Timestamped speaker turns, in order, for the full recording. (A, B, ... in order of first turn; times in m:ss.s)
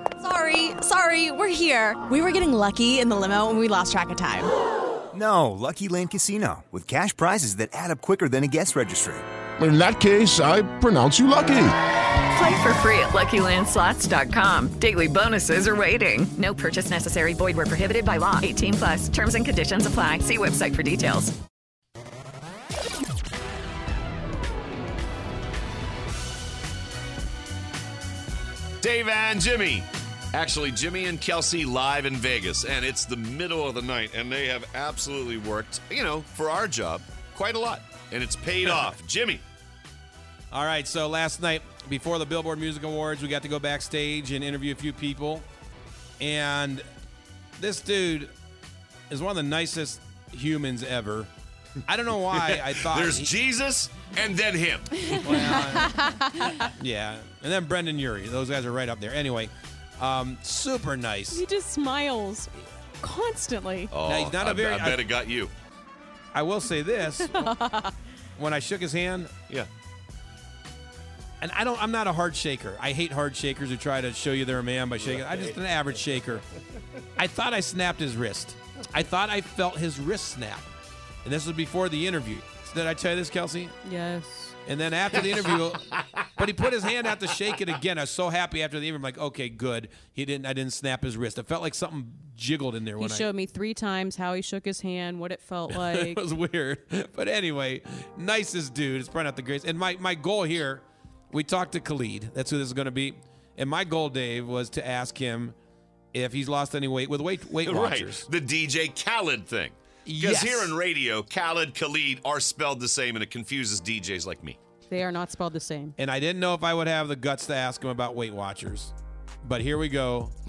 0:00.2-0:04.5 A
0:05.1-0:09.3 B
0:09.6-0:11.8 C
0:12.4-0:21.3 D
0:28.8-0:39.4 E
0:40.5-0:45.5 F
0:46.2-0:46.8 F
0:47.6-0:48.3 F
0:49.1-0:51.3 F
0:51.9-0:53.3 F
0:52.4-0:55.1 E
0:55.2-1:01.4 F
0:55.3-0:56.7 G
1:01.3-1:03.9 G
1:03.9-1:05.5 E
1:04.0-1:05.1 F
1:06.3-1:07.5 F
1:07.3-1:07.9 G
1:08.4-1:09.3 F
1:11.4-1:16.4 F
1:15.0-1:15.5 E
1:17.2-1:20.7 F
1:21.2-1:23.7 F
1:23.8-1:24.6 G
1:24.6-1:33.3 F
1:33.0-1:36.2 G
1:35.7-1:45.6 F
1:46.1-1:48.3 F
1:47.7-1:54.6 E
1:50.1-1:50.8 F
1:54.9-1:56.0 G
1:56.0-2:00.3 F